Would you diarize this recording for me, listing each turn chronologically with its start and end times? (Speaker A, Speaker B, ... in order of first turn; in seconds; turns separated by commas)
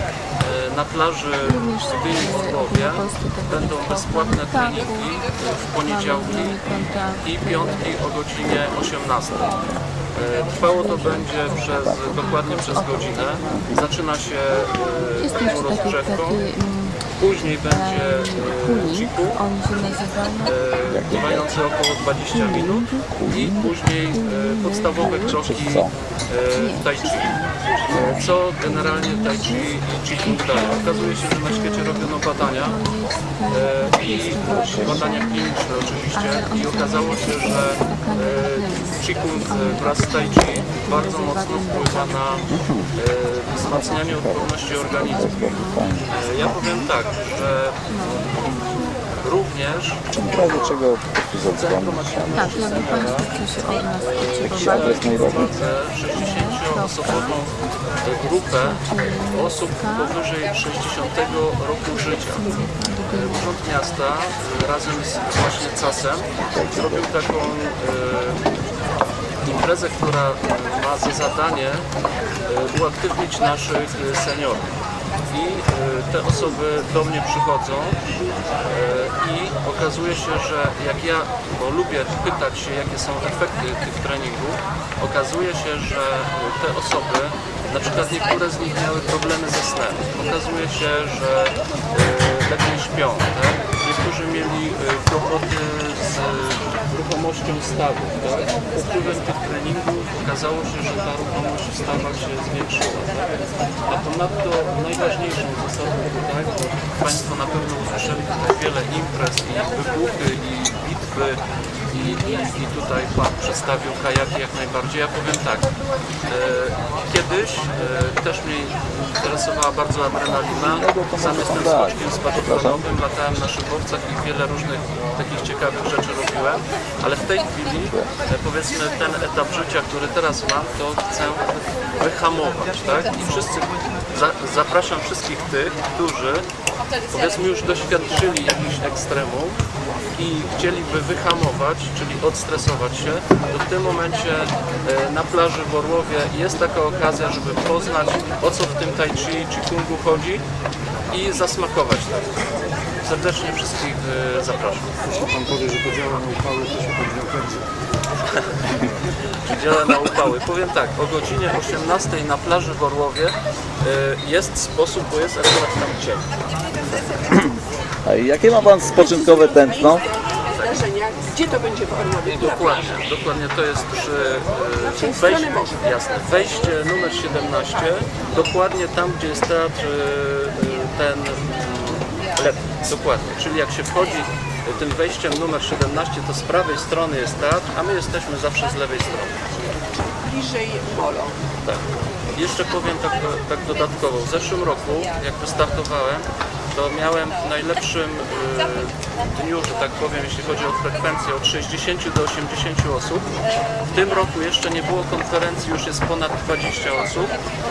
Speaker A: 0.4-9.5, Speaker B: 1.4-5.2, Speaker B: 5.8-8.0, Speaker C: 9.3-9.8, Speaker A: 10.1-16.4, Speaker B: 10.6-13.6, Speaker C: 10.9-12.2, Speaker C: 13.4-13.8, Speaker B: 15.2-17.0, Speaker A: 17.1-19.4, Speaker B: 17.6-20.6, Speaker A: 20.4-27.4, Speaker C: 20.9-21.5, Speaker B: 22.3-23.3, Speaker C: 22.5-23.7, Speaker B: 24.1-25.4, Speaker C: 25.3-25.9, Speaker B: 26.5-35.6, Speaker C: 27.6-28.8, Speaker A: 27.9-32.8, Speaker A: 33.5-42.4, Speaker C: 34.4-35.1, Speaker B: 36.1-42.5, Speaker C: 42.5-42.9, Speaker A: 42.9-45.3, Speaker C: 43.6-46.1, Speaker B: 45.0-46.9, Speaker A: 46.1-48.6, Speaker B: 47.9-49.1, Speaker A: 49.2-50.8, Speaker C: 50.1-53.1, Speaker A: 51.5-53.4, Speaker B: 52.3-55.5, Speaker A: 53.9-57.5, Speaker C: 54.4-55.5, Speaker B: 56.1-57.5, Speaker A: 58.0-68.5, Speaker B: 58.5-60.2, Speaker B: 62.3-63.6, Speaker C: 66.4-67.1, Speaker A: 69.4-71.8, Speaker A: 72.5-74.7, Speaker A: 75.3-78.0, Speaker A: 78.7-103.3, Speaker A: 103.9-115.7, Speaker A: 116.3-136.4, Speaker C: 120.5-122.8, Speaker A: 137.1-139.6, Speaker A: 140.2-150.4, Speaker A: 151.1-152.2, Speaker A: 153.0-155.2, Speaker D: 155.2-157.6, Speaker A: 158.3-166.3, Speaker C: 167.3-170.1, Speaker E: 168.9-173.0, Speaker A: 170.5-170.8, Speaker A: 172.2-189.4, Speaker E: 174.8-175.8, Speaker E: 190.2-191.3, Speaker A: 191.6-203.3, Speaker A: 203.9-207.3